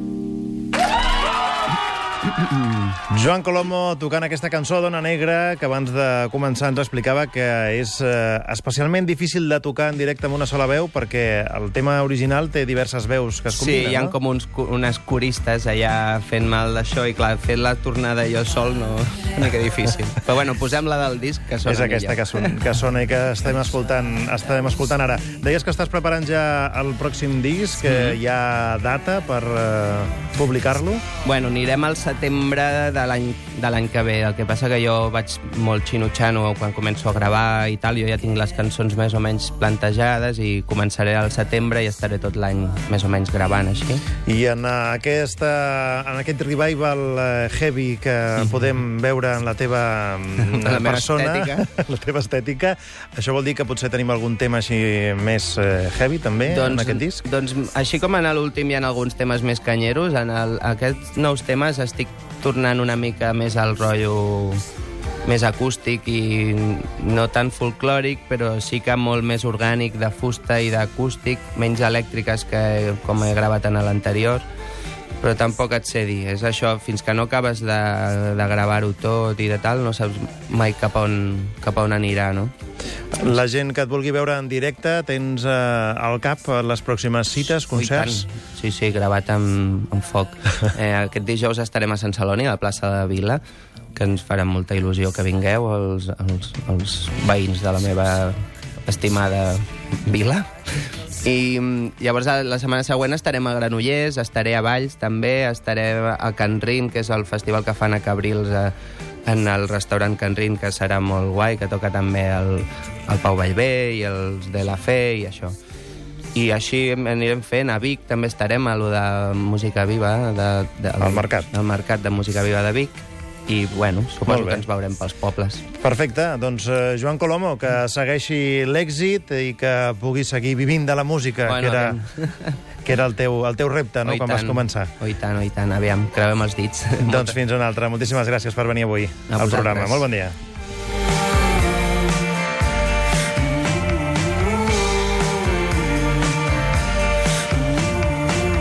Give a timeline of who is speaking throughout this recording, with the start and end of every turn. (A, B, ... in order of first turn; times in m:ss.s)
0:03.1-0:14.2 A
0:13.5-0:22.6 B
0:21.7-0:31.0 A
0:27.9-0:28.2 B
0:31.2-0:44.0 B
0:44.3-0:57.2 A
0:50.4-0:51.7 B
0:56.5-1:04.6 B
1:05.2-1:14.4 B
1:15.2-1:22.5 B
1:23.2-1:28.3 A
1:27.7-1:33.4 B
1:34.0-1:40.5 B
1:41.2-1:48.7 B
1:49.2-1:55.5 B
1:56.3-2:05.6 B
2:01.0-2:01.5 A
2:04.3-2:04.6 A
2:05.8-2:12.0 A
2:11.5-2:12.6 B
2:12.8-2:14.9 A
2:14.0-2:17.4 B
2:17.0-2:20.4 A
2:19.3-2:20.0 B